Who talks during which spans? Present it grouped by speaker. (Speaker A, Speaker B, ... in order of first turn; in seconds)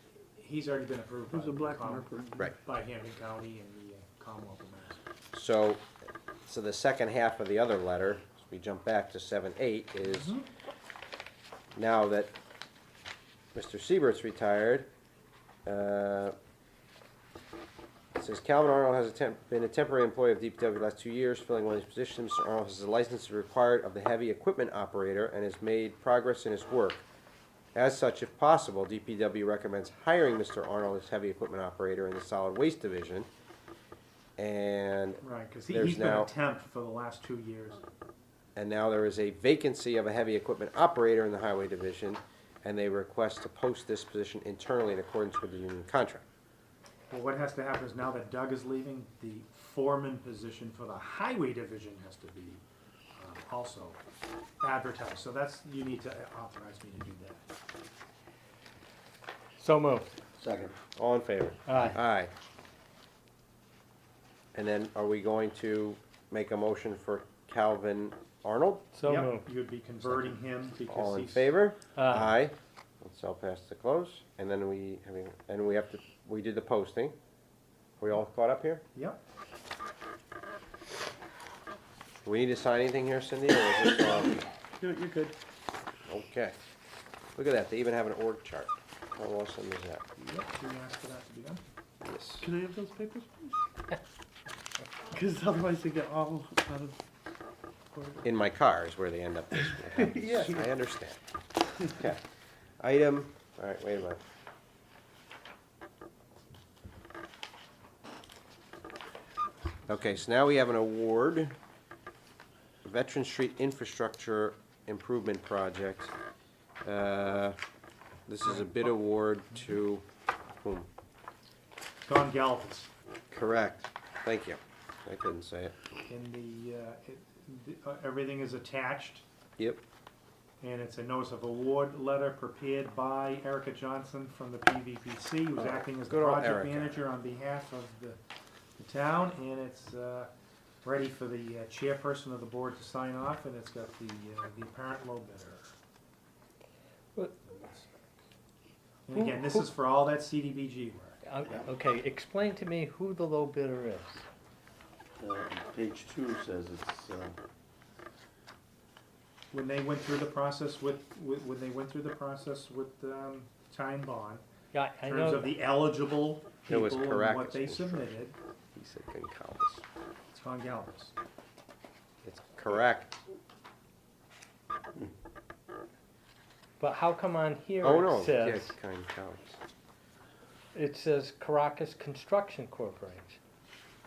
Speaker A: 0.4-5.0, 10.0-10.4, 35.2-37.8, 47.1-52.6, 53.2-54.0, 54.6-57.5, 61.7-62.0, 69.0-71.5, 79.0-79.2, 90.2-91.6, 118.5-118.9, 122.1-122.9, 126.1-129.2, 130.6-138.2, 138.8-140.3, 140.8-145.7, 147.4-148.2, 149.1-151.2, 159.5-164.4, 165.1-168.3, 170.3-171.2
Speaker B: 1.3-2.5, 84.8-85.3, 92.4-93.6, 95.1-97.0, 97.9-98.3, 99.6-100.7
Speaker C: 5.3-5.9, 6.5-10.3, 11.8-12.3, 13.5-14.9, 15.7-16.4, 18.1-27.0, 27.8-33.3, 34.4-36.3, 38.6-46.3, 61.0-62.3, 64.5-68.9, 70.9-77.2, 78.0-78.8, 82.2-84.4, 86.1-86.5, 87.4-90.0, 92.0-92.5, 98.2-101.2, 101.8-102.2, 102.8-104.2, 109.9-111.5, 112.8-116.1, 116.8-117.6, 118.3-120.0, 120.6-120.9, 123.3-125.8, 135.6-137.1, 166.7-168.1, 168.8-169.8, 172.2-173.2, 177.8-179.6
Speaker D: 59.6-60.1, 68.9-69.5, 72.0-72.3, 151.2-154.3, 164.7-165.6, 176.8-178.8, 180.7-183.4
Speaker E: 60.4-60.8, 151.4-151.7, 155.2-157.4